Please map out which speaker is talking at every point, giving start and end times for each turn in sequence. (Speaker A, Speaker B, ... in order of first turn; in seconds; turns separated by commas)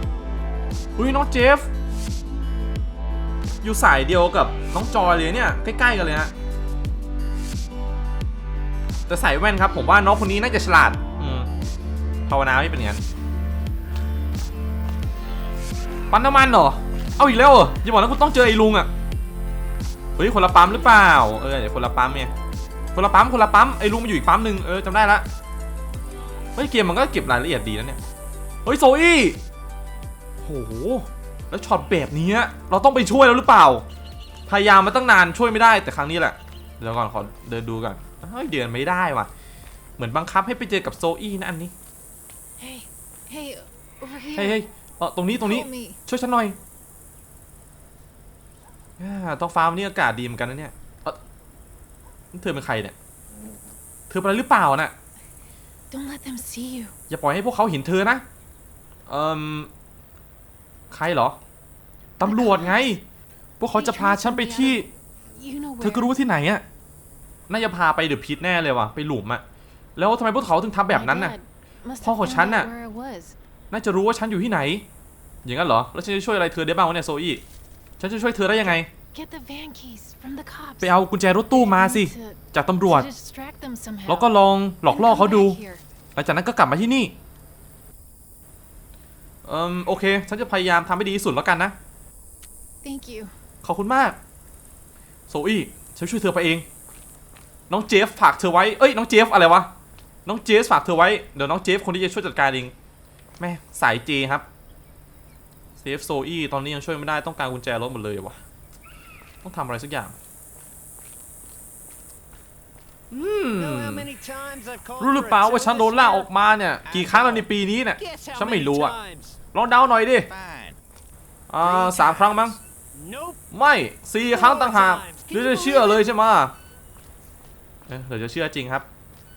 Speaker A: 1.0-1.7, Speaker A: 3.6-6.3, Speaker A: 9.1-11.5, Speaker A: 12.3-13.0, Speaker A: 16.1-18.9, Speaker A: 20.2-22.3, Speaker A: 22.9-25.3, Speaker A: 26.6-28.0, Speaker A: 28.6-29.4, Speaker A: 30.4-33.9, Speaker A: 34.5-39.3, Speaker A: 40.0-41.7, Speaker B: 42.6-44.6, Speaker A: 44.4-46.6, Speaker B: 45.4-46.0, Speaker A: 49.0-51.2, Speaker A: 52.3-53.0, Speaker A: 54.1-55.0, Speaker B: 55.9-57.0, Speaker A: 57.1-58.2, Speaker A: 59.1-59.7, Speaker A: 60.9-61.4, Speaker A: 62.2-63.0, Speaker B: 62.2-63.0, Speaker A: 63.6-64.9, Speaker B: 63.7-66.1, Speaker A: 65.8-66.7, Speaker A: 67.5-69.4, Speaker A: 70.0-71.3, Speaker B: 70.9-73.3, Speaker A: 72.0-72.7, Speaker A: 73.7-74.9, Speaker A: 75.5-77.4, Speaker A: 78.0-78.9, Speaker B: 79.1-81.0, Speaker A: 80.8-83.1, Speaker B: 81.5-84.3, Speaker A: 84.1-85.6, Speaker B: 84.8-85.8, Speaker A: 86.2-87.1, Speaker A: 89.5-91.8, Speaker B: 92.8-93.3, Speaker A: 93.6-94.2, Speaker A: 95.3-96.7, Speaker A: 97.7-99.7, Speaker A: 100.3-102.7, Speaker A: 103.4-104.5, Speaker A: 105.8-108.4, Speaker A: 109.4-110.1, Speaker A: 113.1-114.1, Speaker C: 113.6-116.3, Speaker A: 115.0-119.0, Speaker C: 116.9-117.5, Speaker C: 118.0-119.4, Speaker A: 119.5-120.3, Speaker C: 120.3-120.8, Speaker A: 121.5-122.6, Speaker C: 121.6-123.4, Speaker A: 123.5-126.5, Speaker C: 124.3-126.1, Speaker A: 127.9-128.9